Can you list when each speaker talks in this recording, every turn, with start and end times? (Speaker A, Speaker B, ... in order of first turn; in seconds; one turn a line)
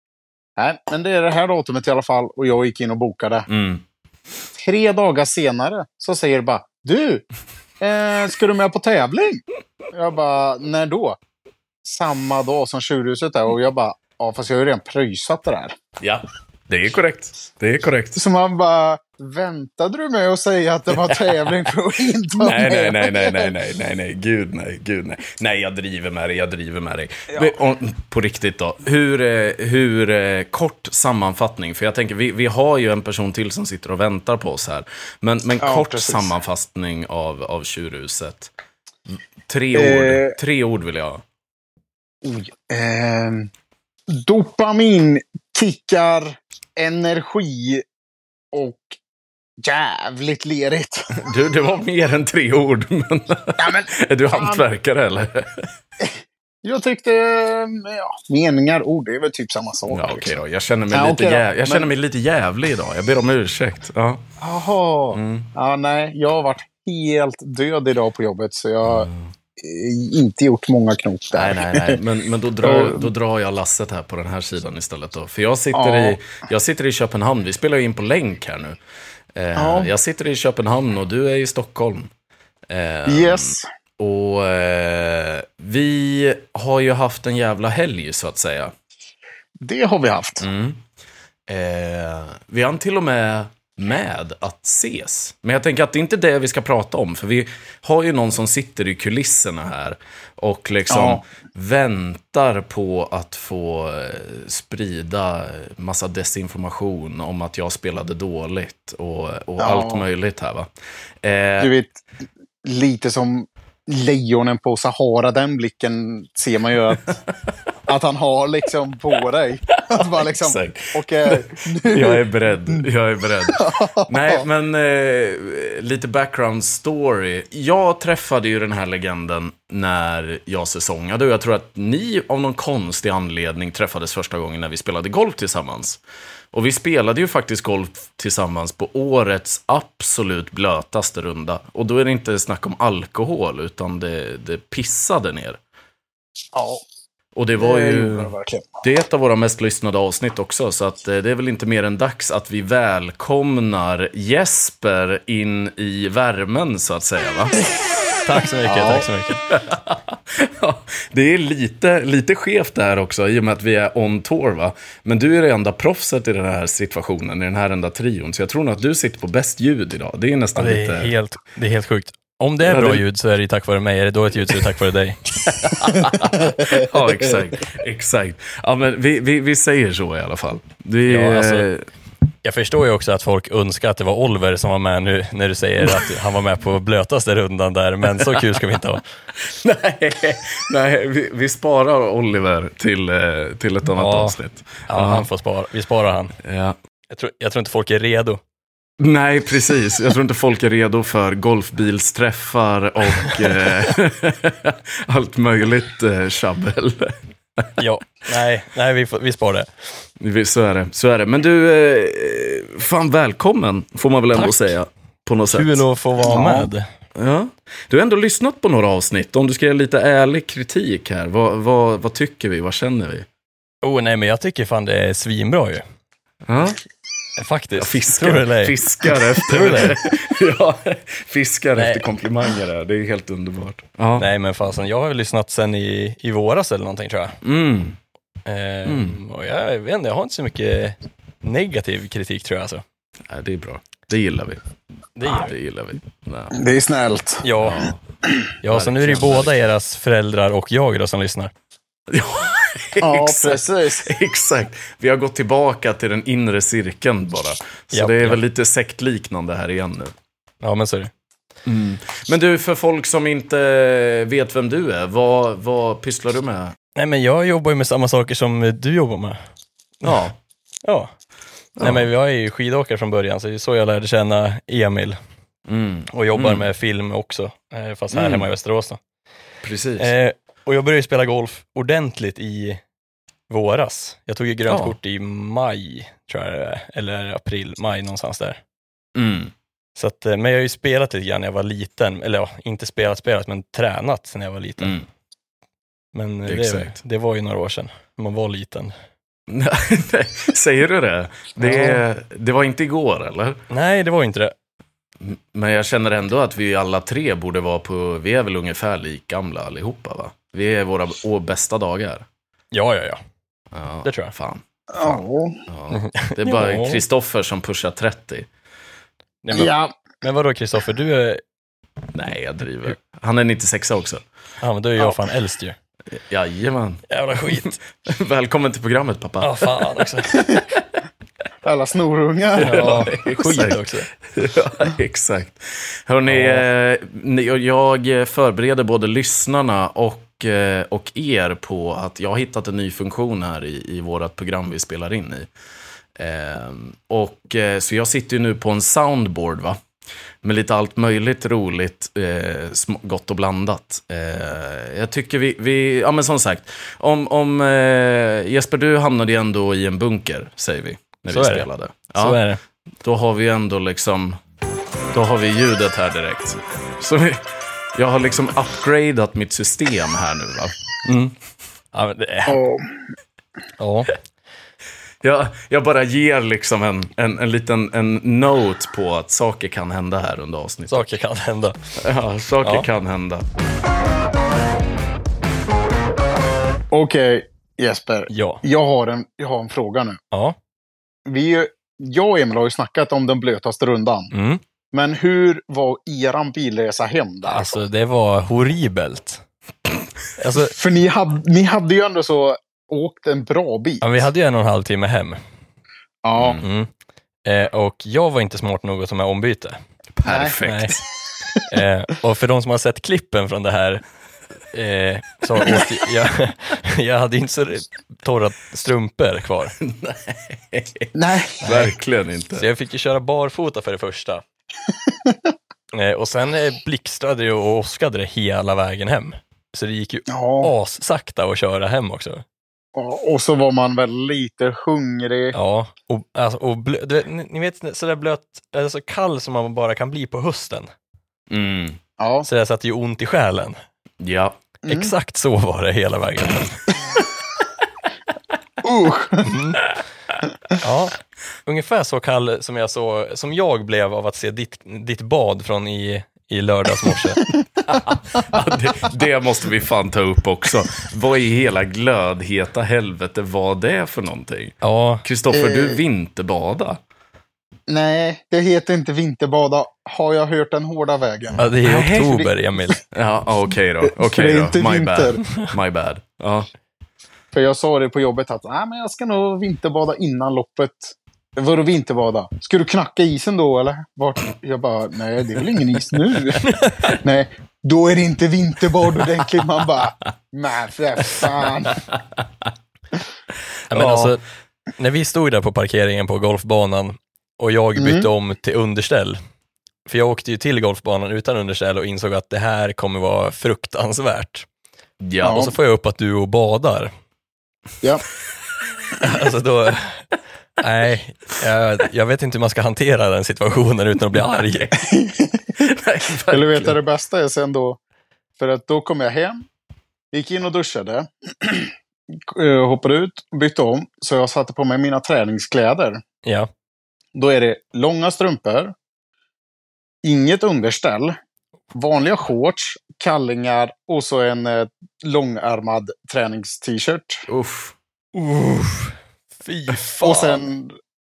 Speaker A: 0.6-3.5
Speaker B: 3.5-3.8
Speaker A: 4.6-7.2
Speaker A: 7.8-11.2
Speaker A: 11.8-15.8
Speaker B: 16.0-18.2
Speaker A: 18.1-23.5
Speaker B: 22.4-38.5
Speaker A: 27.3-27.6
Speaker A: 35.6-36.4
Speaker B: 39.5-41.2
Speaker A: 39.7-40.4
Speaker A: 42.2-43.5
Speaker A: 44.1-47.8
Speaker A: 48.5-49.0
Speaker A: 49.6-51.1
Speaker B: 51.1-55.7
Speaker A: 53.6-54.6
Speaker A: 56.0-61.9
Speaker B: 59.9-64.2
Speaker A: 64.4-72.0
Speaker B: 65.1-65.5
Speaker B: 68.8-69.3
Speaker B: 71.3-78.8
Speaker A: 72.6-73.1
Speaker A: 75.7-76.2
Speaker B: 79.3-82.1
Speaker A: 79.6-79.9
Speaker B: 82.7-88.7
Speaker A: 83.1-83.7
Speaker A: 89.6-90.4
Speaker B: 90.4-90.8
Speaker B: 91.5-110.7
Speaker A: 100.9-101.2
Speaker A: 109.6-110.1
Speaker B: 111.2-111.7
Speaker A: 111.6-112.0
Speaker A: 112.6-117.2
Speaker A: 117.9-122.8
Speaker B: 119.8-136.0
Speaker A: 123.5-124.4
Speaker B: 136.5-145.6
Speaker A: 146.5-146.8
Speaker B: 147.3-157.6
Speaker A: 147.6-148.7
Speaker C: 158.2-159.4
Speaker A: 158.6-159.1
Speaker B: 159.5-171.1
Speaker C: 170.6-175.2
Speaker B: 172.6-173.0
Speaker B: 175.4-181.9
Speaker C: 181.1-181.7
Speaker C: 182.4-189.0
Speaker B: 189.4-195.3
Speaker C: 193.9-196.4
Speaker B: 196.4-196.8
Speaker C: 197.1-198.4
Speaker B: 199.0-207.8
Speaker C: 207.8-209.7
Speaker B: 210.2-215.8
Speaker C: 214.3-214.6
Speaker C: 215.5-216.8
Speaker A: 216.2-216.7
Speaker B: 217.2-223.3
Speaker C: 223.8-225.8
Speaker B: 226.5-226.8
Speaker C: 227.4-230.0
Speaker B: 227.8-234.3
Speaker C: 231.8-232.1
Speaker C: 234.2-237.4
Speaker B: 237.4-238.0
Speaker C: 238.4-242.8
Speaker B: 238.8-239.2
Speaker B: 243.3-244.6
Speaker C: 245.2-245.5
Speaker B: 245.2-246.6
Speaker A: 246.5-247.5
Speaker C: 247.4-247.8
Speaker B: 247.6-248.0
Speaker C: 248.6-251.5
Speaker B: 248.7-249.6
Speaker B: 252.1-260.1
Speaker A: 253.0-254.1
Speaker C: 257.9-258.4
Speaker C: 260.6-261.1
Speaker B: 261.7-266.8
Speaker C: 267.0-269.4
Speaker C: 270.0-270.3
Speaker B: 270.1-270.4
Speaker B: 271.8-272.1
Speaker C: 271.8-275.2
Speaker B: 275.7-276.6
Speaker C: 276.1-279.0
Speaker B: 278.1-278.5
Speaker B: 279.6-280.1
Speaker C: 280.0-282.8
Speaker C: 283.5-288.6
Speaker B: 284.7-284.9
Speaker B: 289.1-289.5
Speaker C: 290.0-295.0
Speaker B: 294.8-295.1
Speaker C: 296.1-298.9
Speaker B: 296.5-297.0
Speaker B: 299.5-303.6
Speaker C: 301.6-302.0
Speaker C: 303.7-304.5
Speaker B: 305.2-312.3
Speaker C: 312.7-313.2
Speaker B: 313.7-318.5
Speaker C: 314.0-314.3
Speaker A: 314.9-315.7
Speaker C: 315.9-317.0
Speaker C: 319.4-319.7
Speaker A: 319.5-320.0
Speaker C: 320.2-321.4
Speaker B: 322.1-324.2
Speaker C: 324.6-325.8
Speaker B: 326.3-329.9
Speaker C: 327.1-327.8
Speaker C: 329.4-330.6
Speaker A: 330.4-330.6
Speaker A: 331.6-332.8
Speaker C: 332.6-334.1
Speaker B: 332.6-345.5
Speaker C: 336.3-336.6
Speaker B: 346.2-349.8
Speaker B: 350.4-362.4
Speaker C: 361.3-362.6
Speaker B: 363.0-364.4
Speaker B: 365.1-370.7
Speaker C: 371.1-371.3
Speaker C: 371.9-372.6
Speaker A: 372.5-373.1
Speaker C: 373.8-374.1
Speaker B: 375.2-381.1
Speaker C: 380.9-381.8
Speaker B: 382.0-383.5
Speaker C: 382.6-382.9
Speaker A: 386.9-390.2
Speaker C: 388.3-388.6
Speaker A: 391.3-394.3
Speaker C: 394.3-394.6
Speaker A: 394.9-397.8
Speaker C: 397.5-399.4
Speaker C: 400.4-400.7
Speaker A: 400.7-404.2
Speaker C: 404.0-405.4
Speaker A: 406.2-406.6
Speaker B: 406.4-406.6
Speaker C: 406.6-406.9
Speaker C: 407.5-409.8
Speaker B: 410.2-411.0
Speaker A: 410.3-410.6
Speaker C: 410.6-410.9
Speaker C: 411.7-414.0
Speaker C: 414.7-419.8
Speaker B: 419.8-422.6
Speaker A: 421.1-421.7
Speaker C: 421.6-421.9
Speaker C: 422.6-424.4
Speaker A: 425.1-425.5
Speaker C: 425.9-432.4
Speaker A: 430.3-430.7
Speaker A: 432.9-435.6
Speaker C: 435.5-440.9
Speaker B: 441.5-442.0
Speaker A: 442.2-442.5
Speaker C: 442.5-443.8
Speaker B: 444.2-444.6
Speaker A: 444.8-445.1
Speaker C: 444.9-446.9
Speaker A: 448.8-449.6
Speaker C: 449.4-449.9
Speaker C: 450.8-457.4
Speaker B: 457.9-467.0
Speaker C: 464.8-465.2
Speaker A: 465.5-466.0
Speaker A: 467.9-471.7
Speaker C: 471.6-473.0
Speaker B: 471.8-472.5
Speaker B: 473.1-476.7
Speaker A: 474.0-475.4
Speaker A: 477.5-492.0
Speaker C: 486.7-487.0
Speaker B: 491.9-492.2
Speaker B: 493.9-494.3
Speaker C: 493.9-494.4
Speaker C: 495.0-499.4
Speaker A: 498.0-498.3
Speaker C: 500.1-504.7
Speaker B: 505.2-505.6
Speaker A: 505.4-505.7
Speaker C: 505.4-507.1
Speaker C: 509.2-510.2
Speaker C: 510.8-515.0
Speaker A: 515.0-515.8
Speaker B: 515.8-517.0
Speaker A: 516.5-518.0
Speaker A: 518.6-519.6
Speaker A: 520.3-526.2
Speaker C: 526.5-526.7
Speaker A: 527.4-528.9
Speaker A: 530.2-531.4
Speaker A: 531.9-537.5
Speaker B: 537.5-538.0
Speaker C: 538.4-540.7
Speaker A: 540.2-540.9